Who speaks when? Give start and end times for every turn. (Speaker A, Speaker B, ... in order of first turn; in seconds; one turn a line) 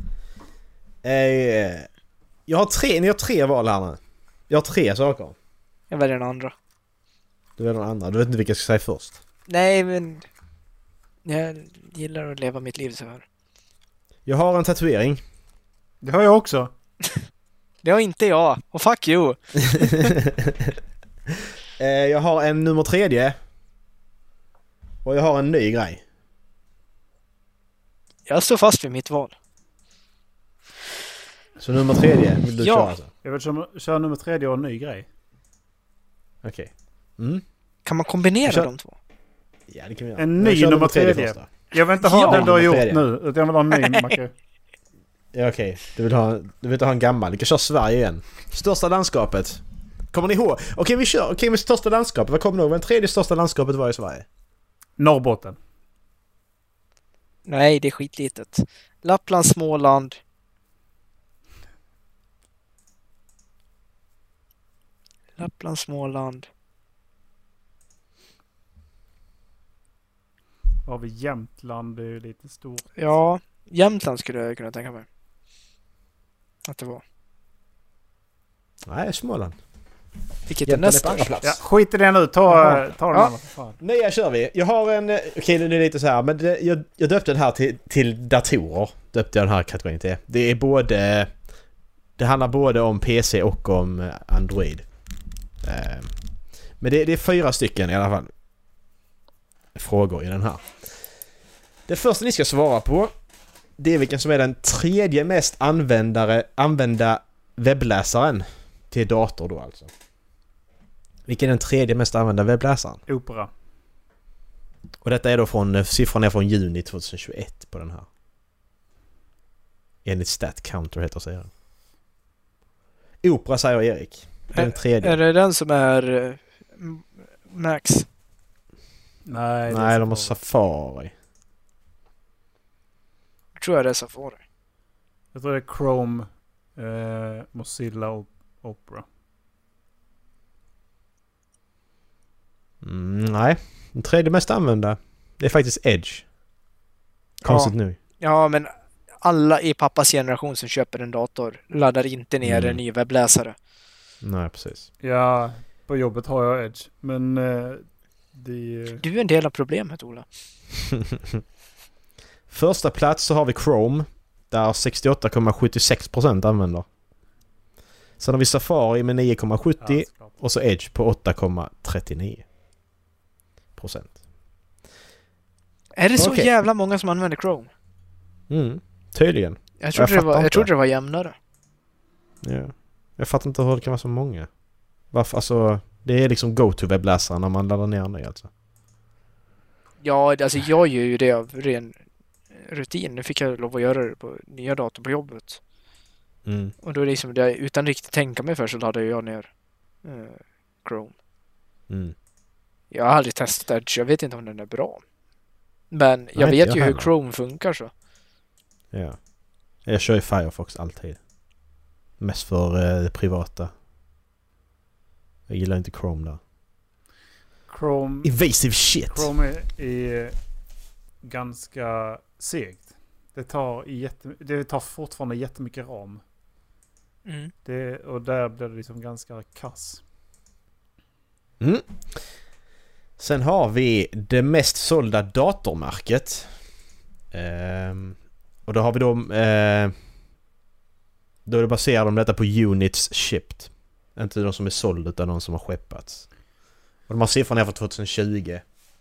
Speaker A: 1.0-1.9
Speaker A: 2.5-5.3
Speaker B: 5.9-6.5
Speaker A: 7.6-9.2
Speaker B: 9.5-10.2
Speaker B: 11.2-13.2
Speaker A: 14.2-15.2
Speaker C: 16.0-16.7
Speaker B: 17.8-20.1
Speaker A: 19.6-20.7
Speaker A: 21.8-23.4
Speaker A: 25.0-26.0
Speaker B: 28.3-29.3
Speaker A: 31.6-33.1
Speaker B: 32.6-32.9
Speaker C: 33.2-35.1
Speaker A: 36.4-37.4
Speaker B: 37.8-38.9
Speaker A: 39.7-41.5
Speaker C: 40.2-44.3
Speaker B: 42.0-42.5
Speaker A: 42.1-43.0
Speaker B: 43.8-44.1
Speaker A: 45.3-49.6
Speaker A: 50.1-54.2
Speaker C: 55.0-55.6
Speaker B: 57.5-60.2
Speaker B: 65.4-66.5
Speaker C: 70.8-72.9
Speaker B: 73.0-75.0
Speaker B: 76.6-77.0
Speaker A: 78.9-79.5
Speaker B: 80.5-81.3
Speaker A: 80.7-81.6
Speaker C: 81.4-83.8
Speaker B: 82.6-83.3
Speaker A: 83.8-91.3
Speaker A: 92.2-94.8
Speaker A: 95.6-96.1
Speaker A: 96.8-98.3
Speaker A: 99.7-100.7
Speaker A: 101.9-103.1
Speaker A: 103.8-109.9
Speaker A: 111.3-113.0
Speaker C: 113.1-113.5
Speaker A: 115.0-118.1
Speaker A: 120.0-121.5
Speaker A: 123.2-125.2
Speaker B: 124.5-128.1
Speaker C: 129.2-130.3
Speaker A: 129.7-131.1
Speaker B: 133.6-134.4
Speaker C: 135.3-139.1
Speaker A: 142.8-146.2
Speaker A: 147.4-148.0
Speaker B: 147.4-148.7
Speaker B: 149.2-153.5
Speaker A: 152.4-152.8
Speaker A: 154.2-154.9
Speaker C: 155.0-159.0
Speaker B: 159.0-160.2
Speaker A: 162.5-166.8
Speaker A: 168.2-172.4
Speaker C: 169.8-170.4
Speaker A: 173.8-174.2
Speaker B: 176.0-177.7
Speaker A: 176.2-176.5
Speaker A: 178.5-180.7
Speaker B: 179.8-181.3
Speaker A: 182.4-184.5
Speaker A: 185.1-188.5
Speaker B: 190.0-191.9
Speaker B: 192.5-195.6
Speaker A: 196.4-196.7
Speaker B: 196.8-199.5
Speaker B: 200.0-201.1
Speaker A: 201.9-202.1
Speaker B: 202.9-205.0
Speaker B: 205.9-207.9
Speaker A: 206.3-207.1
Speaker A: 208.9-209.2
Speaker A: 209.8-211.2
Speaker A: 212.2-213.7
Speaker A: 215.5-216.4
Speaker C: 217.7-218.3
Speaker A: 218.2-219.3
Speaker C: 219.1-220.3
Speaker C: 221.2-226.2
Speaker B: 227.2-227.5
Speaker C: 227.6-230.0
Speaker A: 231.6-232.2
Speaker A: 233.2-236.5
Speaker A: 237.3-239.9
Speaker A: 241.4-246.2
Speaker A: 247.1-248.6